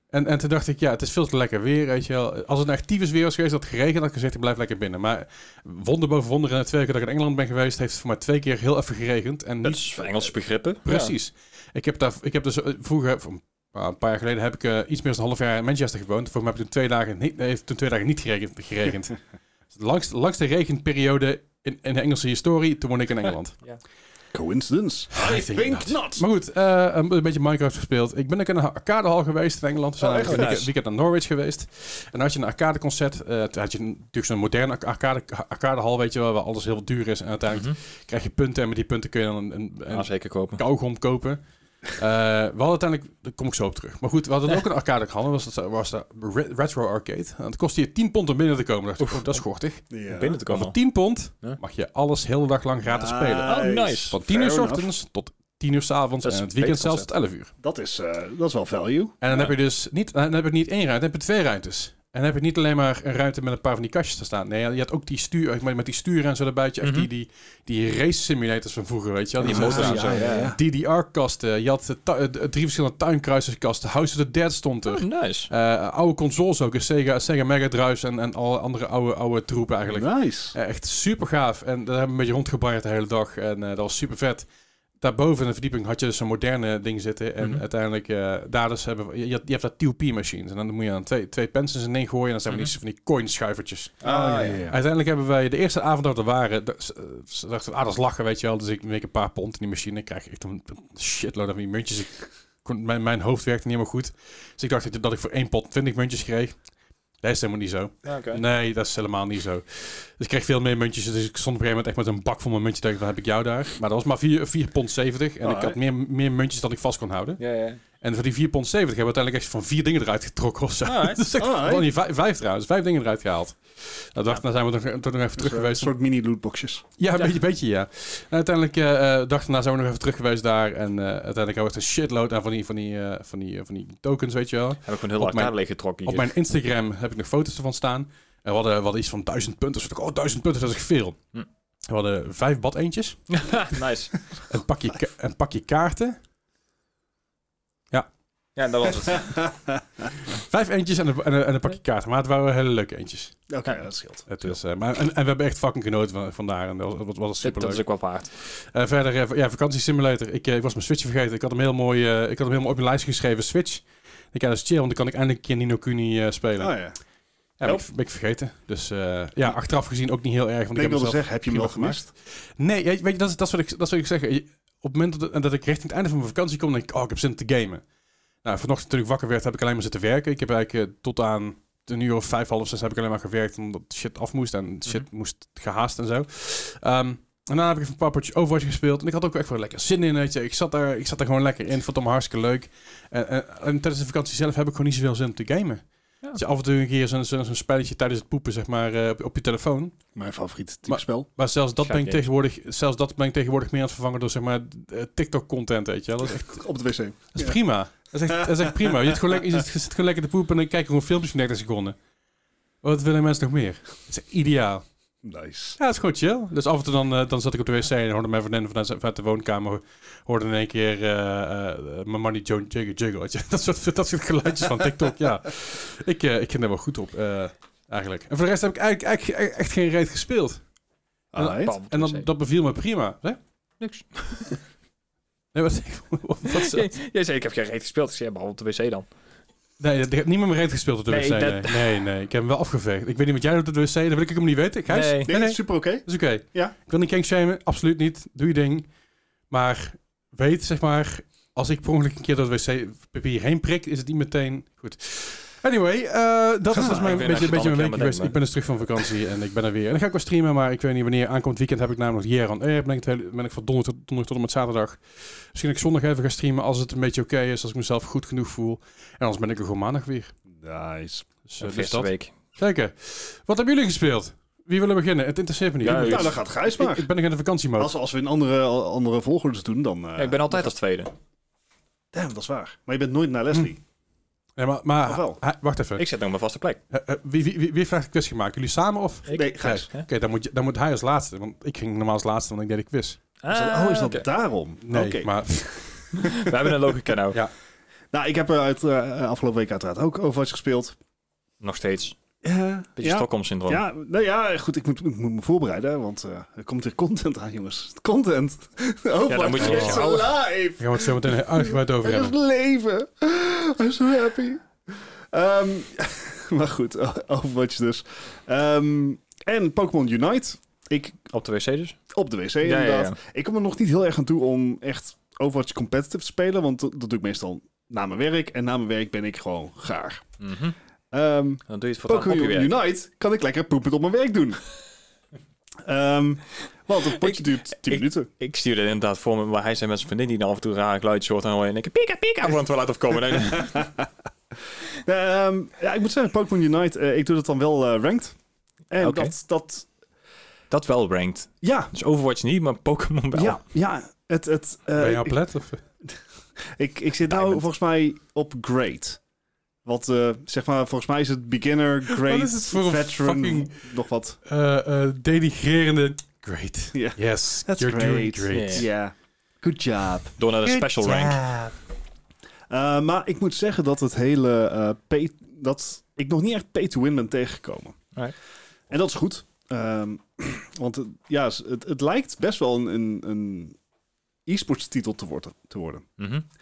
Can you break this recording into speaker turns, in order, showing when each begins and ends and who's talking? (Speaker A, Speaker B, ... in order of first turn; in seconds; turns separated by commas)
Speaker A: 0.1-10.1, Speaker B: 9.6-11.1, Speaker A: 10.8-19.2, Speaker A: 19.7-23.6, Speaker C: 24.3-26.2, Speaker A: 25.1-49.8, Speaker C: 30.0-30.6, Speaker B: 30.2-30.7, Speaker B: 37.5-37.8, Speaker B: 39.9-40.6, Speaker C: 49.9-50.4, Speaker B: 50.1-50.7, Speaker A: 50.5-57.5, Speaker C: 52.9-54.9, Speaker B: 53.4-54.2, Speaker B: 56.2-57.1, Speaker C: 57.6-59.2, Speaker A: 59.2-84.5, Speaker B: 66.8-67.1, Speaker B: 69.4-70.5, Speaker C: 69.4-70.6, Speaker B: 74.8-75.5, Speaker C: 79.9-80.5, Speaker A: 85.0-94.0, Speaker B: 92.5-92.7, Speaker B: 94.0-94.7, Speaker C: 94.0-94.8, Speaker A: 94.7-106.6, Speaker A: 107.2-117.4, Speaker B: 108.0-108.4, Speaker C: 115.4-115.8, Speaker B: 117.4-117.8, Speaker A: 118.0-125.9, Speaker B: 120.8-121.2, Speaker C: 121.4-121.9, Speaker C: 125.4-126.8, Speaker A: 127.0-141.2, Speaker B: 134.8-136.3, Speaker A: 141.9-143.8, Speaker B: 143.3-144.2, Speaker A: 144.3-146.2, Speaker B: 148.6-149.4, Speaker C: 149.3-149.8, Speaker A: 150.3-153.4, Speaker C: 153.5-154.5, Speaker A: 154.3-157.9, Speaker B: 157.4-158.3, Speaker A: 158.4-166.8, Speaker C: 166.6-166.9, Speaker A: 167.6-177.8, Speaker C: 170.8-172.1, Speaker A: 178.4-200.0, Speaker C: 200.1-201.3, Speaker A: 200.8-206.6, Speaker B: 201.8-202.2, Speaker C: 206.4-207.6, Speaker A: 207.3-211.9, Speaker C: 208.3-209.4, Speaker A: 212.8-214.8, Speaker C: 215.2-215.8, Speaker A: 215.8-230.6, Speaker C: 231.3-231.8, Speaker A: 231.4-233.4, Speaker B: 231.5-232.3, Speaker B: 233.8-234.6, Speaker A: 235.5-236.9, Speaker B: 236.5-239.1, Speaker A: 239.8-248.9, Speaker B: 241.1-242.0, Speaker B: 244.9-245.3, Speaker C: 245.3-246.7, Speaker A: 249.5-265.0, Speaker B: 256.7-258.4, Speaker A: 265.5-270.3, Speaker C: 270.6-271.3, Speaker A: 271.5-277.9, Speaker B: 271.6-272.3, Speaker B: 275.8-276.3, Speaker C: 275.9-277.1, Speaker C: 277.8-280.7, Speaker B: 280.2-281.1, Speaker C: 282.1-283.8, Speaker A: 284.6-286.1, Speaker C: 285.0-285.4, Speaker B: 286.0-286.8, Speaker A: 286.9-293.2, Speaker B: 289.3-290.1, Speaker C: 289.3-289.9, Speaker B: 293.4-294.2, Speaker C: 293.5-296.7, Speaker A: 294.8-296.1, Speaker B: 296.1-297.4, Speaker C: 298.1-300.9, Speaker B: 301.6-302.1, Speaker C: 302.4-321.3, Speaker B: 303.0-303.8, Speaker B: 309.3-310.3, Speaker A: 309.6-310.1, Speaker A: 310.8-312.4, Speaker B: 321.3-322.0, Speaker C: 322.1-330.2, Speaker B: 322.6-323.1, Speaker B: 330.4-330.7, Speaker C: 331.1-334.6, Speaker B: 331.7-332.7, Speaker C: 335.8-338.3, Speaker B: 337.2-343.9, Speaker C: 343.5-344.1, Speaker C: 345.0-348.4, Speaker C: 348.9-349.9, Speaker B: 349.0-349.3, Speaker B: 350.7-353.6, Speaker C: 351.6-351.9, Speaker C: 353.3-355.4, Speaker A: 355.0-355.8, Speaker C: 356.0-359.2, Speaker B: 357.3-357.6, Speaker C: 359.8-364.4, Speaker A: 362.1-363.9, Speaker A: 364.4-368.9, Speaker C: 366.9-371.7, Speaker B: 368.5-368.9, Speaker B: 370.4-371.4, Speaker C: 372.7-378.0, Speaker C: 378.9-383.8, Speaker C: 384.4-386.0, Speaker B: 386.2-386.4